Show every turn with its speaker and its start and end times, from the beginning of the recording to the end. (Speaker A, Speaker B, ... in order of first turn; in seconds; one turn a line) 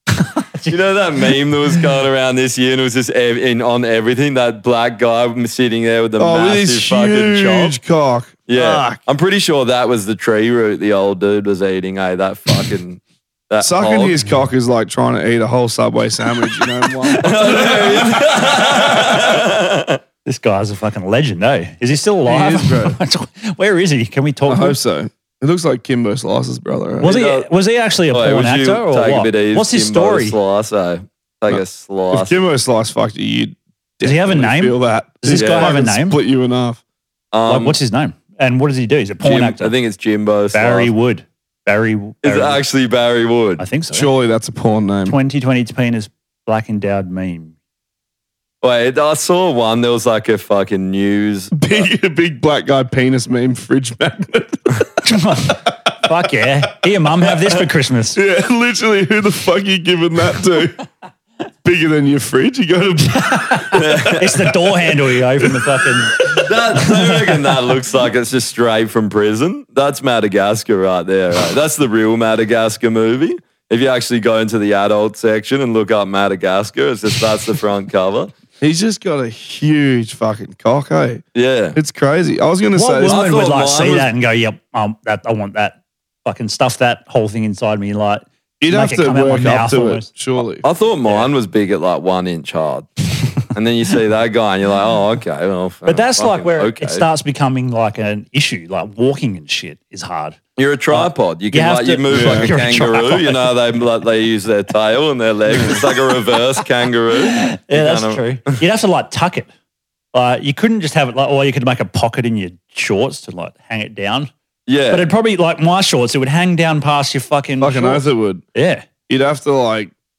Speaker A: 0.2-1.8
Speaker B: 0.7-7.7
Speaker C: 6.2-9.0
Speaker B: 8.5-14.2
Speaker C: 13.6-18.3
Speaker B: 17.2-20.0
Speaker A: 20.2-24.8
Speaker C: 22.2-23.0
Speaker C: 24.4-27.2
Speaker A: 27.0-30.4
Speaker B: 27.0-27.5
Speaker B: 28.1-32.4
Speaker C: 31.5-36.8
Speaker A: 34.0-36.2
Speaker B: 35.3-35.7
Speaker B: 37.3-37.8
Speaker A: 37.5-39.7
Speaker B: 39.2-40.9
Speaker A: 40.5-42.6
Speaker B: 42.2-43.6
Speaker A: 43.6-44.1
Speaker C: 43.9-45.2
Speaker A: 45.0-47.5
Speaker B: 48.6-51.9
Speaker C: 51.5-54.8
Speaker A: 55.0-58.2
Speaker C: 58.1-60.8
Speaker C: 61.6-63.8
Speaker A: 63.2-67.3
Speaker B: 63.7-64.4
Speaker C: 65.4-65.9
Speaker B: 66.4-78.3
Speaker C: 78.6-81.2
Speaker B: 81.3-81.8
Speaker C: 81.7-83.3
Speaker A: 82.7-90.1
Speaker B: 83.0-84.1
Speaker C: 88.6-90.6
Speaker B: 90.6-92.9
Speaker B: 93.5-97.0
Speaker A: 95.8-103.5
Speaker B: 100.6-108.6
Speaker C: 102.1-102.5
Speaker A: 107.3-109.5
Speaker A: 110.1-114.3
Speaker B: 114.7-115.1
Speaker A: 114.9-118.9
Speaker C: 117.6-118.4
Speaker C: 119.1-119.9